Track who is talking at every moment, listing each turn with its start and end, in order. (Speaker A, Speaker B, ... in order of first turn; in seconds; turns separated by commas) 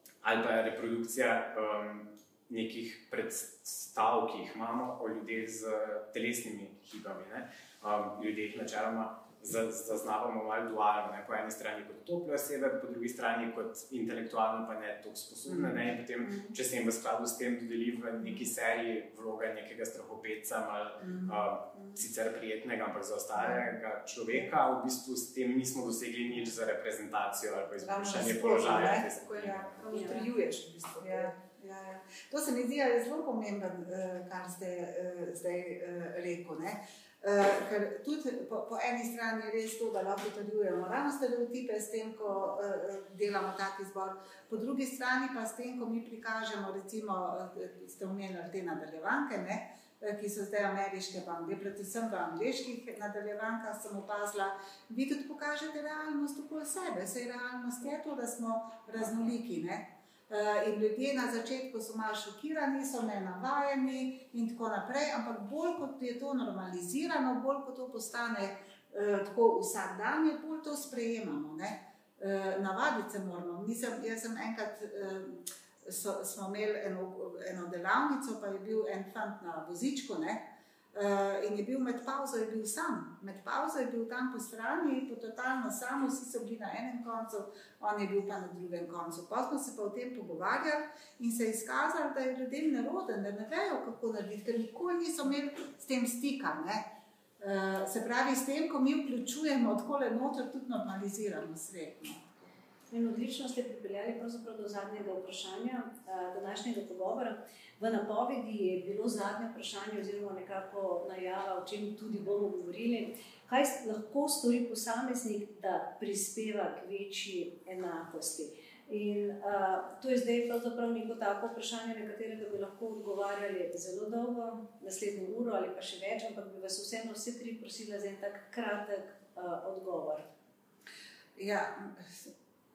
Speaker A: 0.2-29.7, Speaker B: 27.8-29.1, Speaker C: 28.6-31.3, Speaker B: 29.9-30.2, Speaker B: 31.0-80.4, Speaker B: 80.9-96.8, Speaker B: 97.4-102.3, Speaker D: 102.9-130.3, Speaker B: 131.3-132.3